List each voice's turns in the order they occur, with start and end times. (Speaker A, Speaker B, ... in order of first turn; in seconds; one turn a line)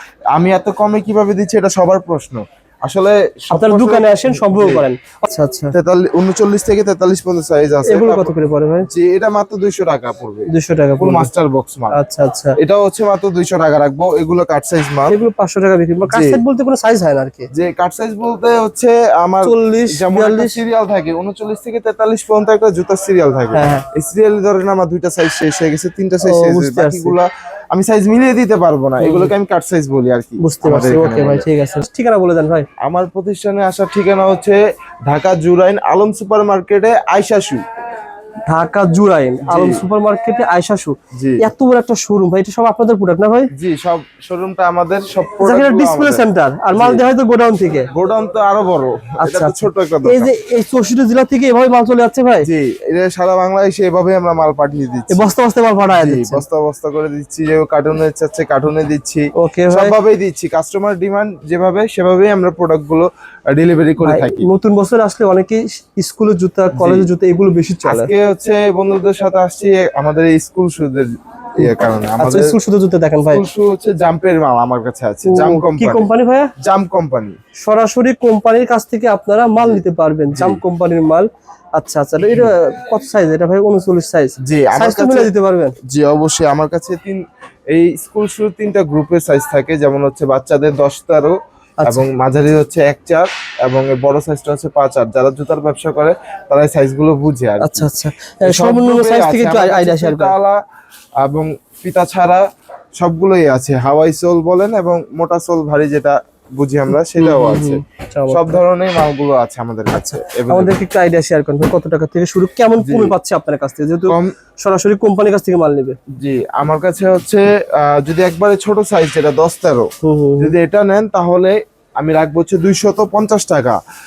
Speaker A: 0.3-4.8
Speaker B: 3.5-5.7
Speaker A: 5.7-8.3
Speaker B: 7.9-8.9
Speaker A: 8.8-10.5
Speaker B: 10.5-11.3
Speaker A: 11.0-12.0
Speaker B: 11.9-12.6
Speaker A: 12.6-15.2
Speaker B: 15.1-17.5
Speaker A: 16.1-16.4
Speaker A: 17.5-31.4
Speaker B: 19.4-20.6
Speaker B: 23.5-23.8
Speaker B: 26.2-27.1
Speaker B: 29.0-29.3
Speaker B: 30.4-32.7
Speaker A: 32.8-34.6
Speaker A: 35.1-37.6
Speaker B: 38.5-43.5
Speaker A: 39.5-39.8
Speaker A: 41.1-41.4
Speaker A: 43.6-47.0
Speaker B: 45.4-47.9
Speaker A: 47.9-50.3
Speaker B: 49.2-52.5
Speaker A: 52.4-55.3
Speaker B: 55.1-56.4
Speaker A: 55.9-64.5
Speaker B: 59.4-59.9
Speaker B: 64.0-68.1
Speaker A: 66.8-67.1
Speaker A: 67.8-72.5
Speaker B: 71.6-73.4
Speaker A: 73.3-76.1
Speaker B: 75.3-76.5
Speaker A: 76.6-77.4
Speaker B: 77.6-85.8
Speaker A: 80.3-80.6
Speaker A: 84.4-85.3
Speaker A: 85.9-87.2
Speaker A: 87.7-91.3
Speaker A: 91.9-97.9
Speaker B: 97.6-100.3
Speaker A: 98.5-100.6
Speaker A: 101.2-102.4
Speaker A: 103.0-110.7
Speaker B: 107.2-108.6
Speaker B: 109.9-116.0
Speaker A: 112.8-113.1
Speaker A: 116.2-119.9
Speaker B: 120.0-120.5
Speaker A: 120.4-123.8